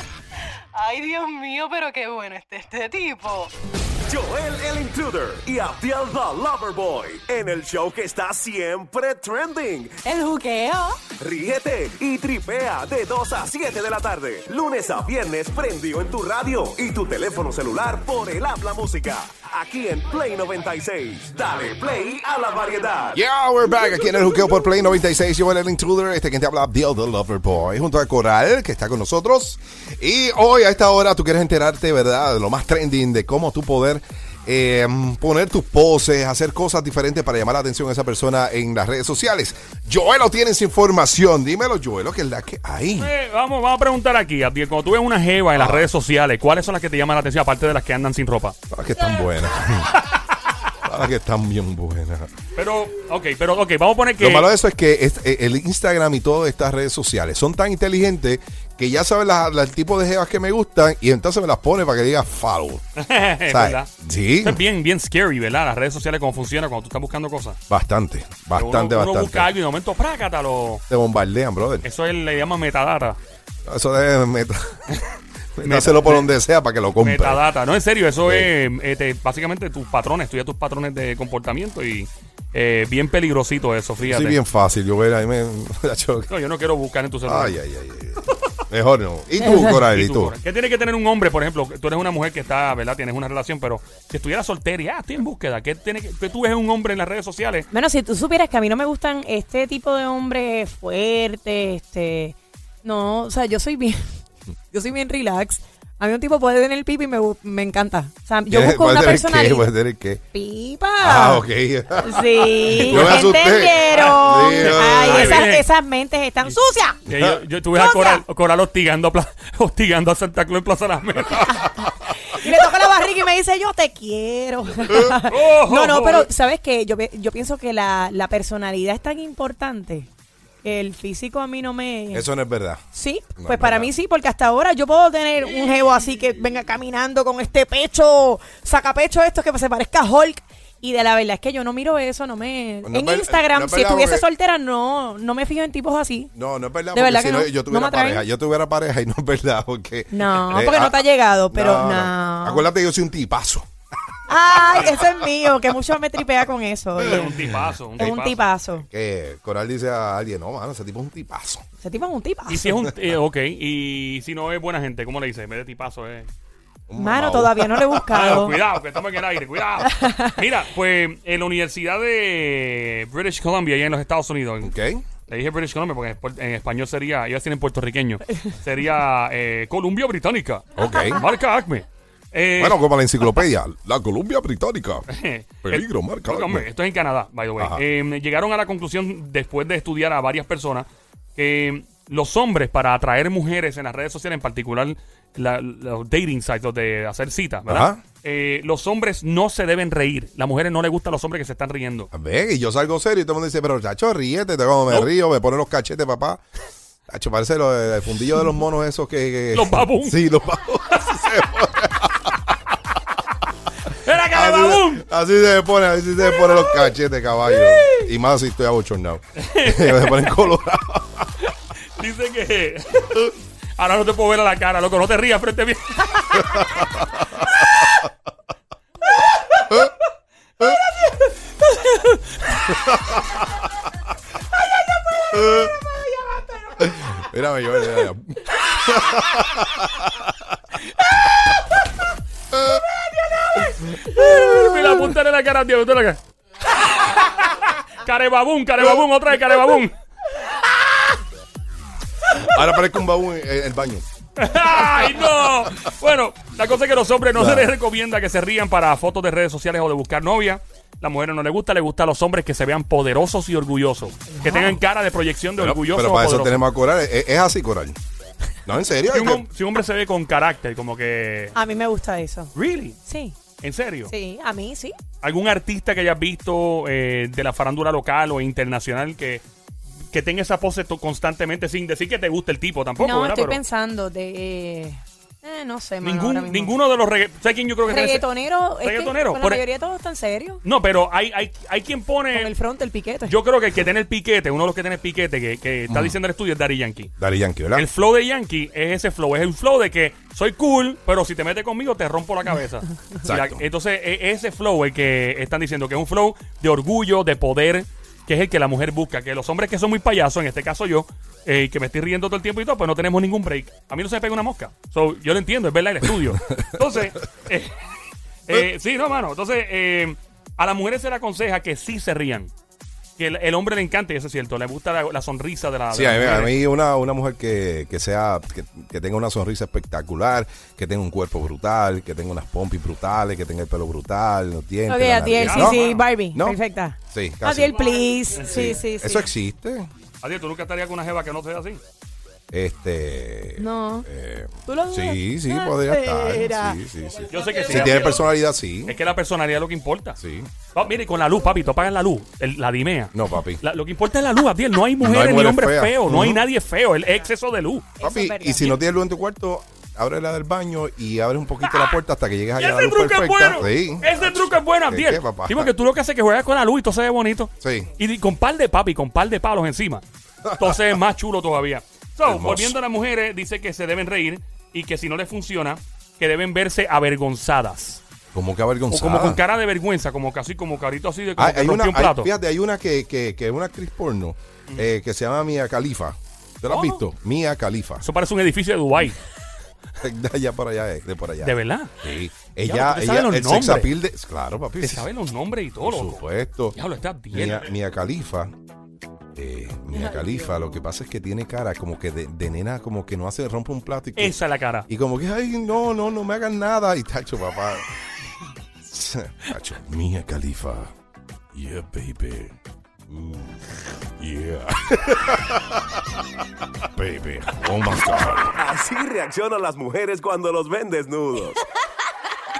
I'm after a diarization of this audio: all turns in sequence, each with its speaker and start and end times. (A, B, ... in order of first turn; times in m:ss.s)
0:00.7-0:03.5 A
0:04.0-0:10.0 B
0:10.0-0:11.0 A
0:11.2-0:23.2 B
0:23.1-0:43.1 C
0:43.0-0:48.5 D
0:45.6-0:45.9 C
0:48.7-0:50.0 C
0:50.0-0:50.2 D
0:50.8-0:52.3 C
0:52.5-0:54.5 D
0:54.2-1:02.8 C
1:03.0-1:07.6 D
1:03.5-1:04.6 C
1:07.7-1:09.5 C
1:08.5-1:10.8 D
1:10.9-1:11.8 C
1:11.8-1:13.2 D
1:13.6-1:14.9 C
1:15.6-1:17.4 C
1:15.6-1:16.3 D
1:17.0-1:24.4 D
1:18.2-1:18.5 C
1:24.0-1:26.3 C
1:26.3-1:27.6 D
1:27.2-1:30.3 C
1:29.6-1:37.7 D
1:37.7-1:44.0 E
1:44.7-1:49.7 E
1:48.5-1:50.2 C
1:50.3-1:51.4 E
1:51.0-1:55.5 C
1:52.0-1:57.0 E
1:52.7-1:53.2 D
1:53.9-1:55.7 D
1:56.4-2:02.1 D
1:57.7-1:58.2 E
2:02.3-2:10.1 E
2:05.3-2:06.3 D
2:10.6-2:12.3 E
2:12.1-2:12.8 C
2:12.9-2:26.3 E
2:13.4-2:13.9 C
2:22.8-2:24.2 C
2:26.3-2:33.6 C
2:26.9-2:28.2 E
2:30.1-2:32.6 E
2:34.3-2:37.3 E
2:34.7-2:35.0 D
2:37.0-2:38.5 D
2:38.0-2:38.8 E
2:38.8-2:41.6 C
2:41.8-2:42.6 E
2:42.5-2:46.3 D
2:42.5-2:42.9 C
2:46.9-2:48.6 C
2:47.0-2:48.6 E
2:48.1-2:54.7 D
2:49.9-2:50.3 E
2:54.6-2:55.0 C
2:55.2-3:03.4 D
3:00.7-3:01.2 C
3:02.6-3:05.1 C
3:05.1-3:22.1 D
3:05.6-3:06.7 C
3:17.6-3:18.0 C
3:22.1-3:26.4 C
3:27.1-3:32.4 C
3:29.5-3:30.2 D
3:33.9-3:35.0 D
3:34.3-3:41.3 C
3:39.4-3:40.5 D
3:41.4-3:46.8 D
3:47.6-3:47.9 D
3:51.1-3:52.7 D
3:52.9-3:53.2 C
3:55.3-3:55.7 C
3:56.0-3:56.5 E
3:56.8-4:00.6 C
4:02.5-4:02.8 C
4:03.8-4:10.0 D
4:12.4-4:14.0 C
4:14.4-4:26.6 D
4:17.3-4:17.7 C
4:25.6-4:28.0 C
4:28.6-4:29.4 C
4:29.1-4:31.6 D
4:31.5-4:32.5 E
4:32.5-4:33.0 D
4:33.0-4:33.4 E
4:33.6-4:34.1 D
4:34.1-4:35.0 E
4:35.2-4:39.4 D
4:40.1-4:43.6 D
4:43.0-4:46.8 E
4:46.0-4:49.6 D
4:47.9-4:50.6 E
4:50.6-4:52.5 D
4:52.3-4:53.3 E
4:53.2-4:57.1 D
4:55.9-4:56.2 C
4:57.2-4:57.9 C
4:57.7-5:17.8 D
5:03.2-5:03.6 C
5:16.5-5:16.8 C
5:18.4-5:22.5 D
5:23.2-5:26.6 D
5:25.9-5:35.8 C
5:34.9-5:39.3 E
5:35.4-5:36.0 D
5:36.3-5:39.9 C
5:38.3-5:38.8 D
5:40.2-5:41.8 D
5:42.5-5:49.0 C
5:43.6-5:44.1 E
5:44.6-5:46.8 E
5:47.3-5:48.3 D
5:47.3-5:48.2 E
5:48.8-5:50.2 D
5:50.2-5:50.5 C
5:50.7-5:57.9 D
5:53.1-5:53.6 C
5:55.0-5:56.4 C
5:58.0-5:58.8 E
5:58.0-6:05.7 C
6:01.6-6:02.0 D
6:02.6-6:18.0 D
6:07.6-6:07.9 C
6:10.4-6:10.9 C
6:12.2-6:12.8 C
6:18.3-6:19.4 C
6:18.9-6:22.3 D
6:21.4-6:28.0 C
6:26.7-6:27.0 D
6:28.0-6:29.2 D
6:30.0-6:35.1 C
6:31.4-6:32.0 D
6:32.6-6:33.9 D
6:34.8-6:37.7 D
6:35.8-6:36.8 C
6:37.3-6:38.5 C
6:39.3-6:44.4 C
6:44.2-6:44.9 D
6:44.9-6:47.8 C
6:48.8-6:50.9 C
6:51.5-6:52.6 C
6:53.1-6:56.2 C
6:56.8-6:58.6 C
6:58.4-7:01.6 B